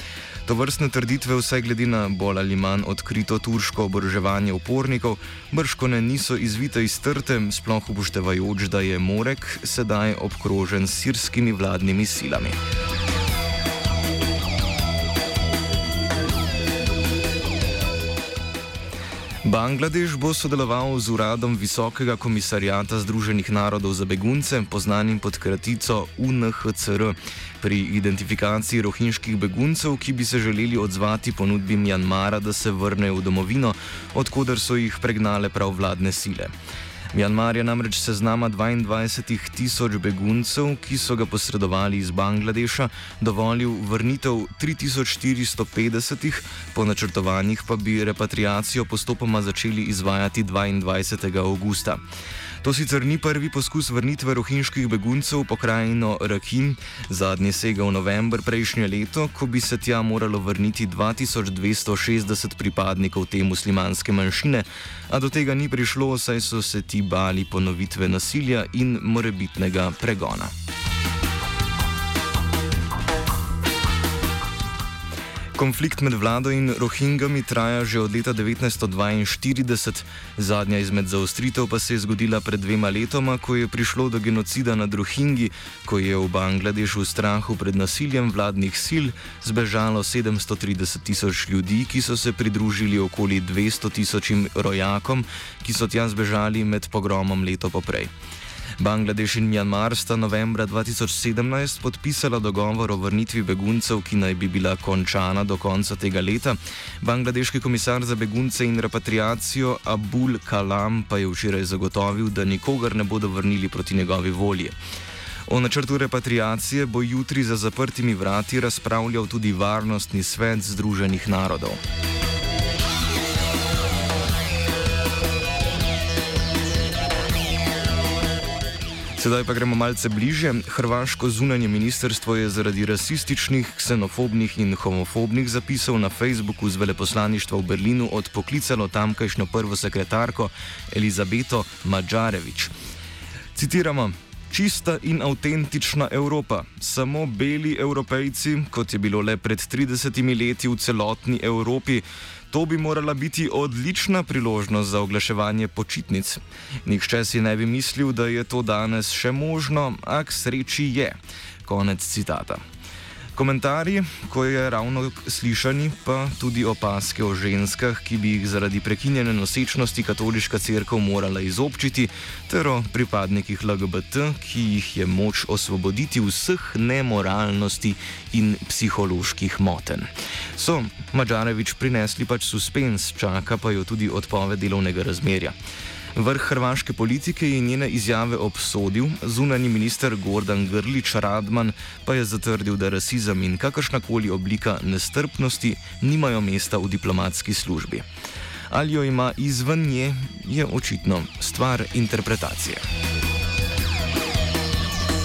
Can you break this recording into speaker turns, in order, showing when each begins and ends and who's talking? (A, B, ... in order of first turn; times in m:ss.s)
0:00.5-0:12.6 A
0:19.4-0:36.5 A
0:37.1-0:52.0 A
0:52.6-1:10.5 A
1:15.6-1:38.1 A
1:38.8-1:54.8 A
1:55.5-2:01.8 A
2:09.2-2:22.7 A
2:23.6-2:42.6 A
2:43.4-3:05.6 A
3:06.2-3:18.0 A
3:18.7-3:22.8 A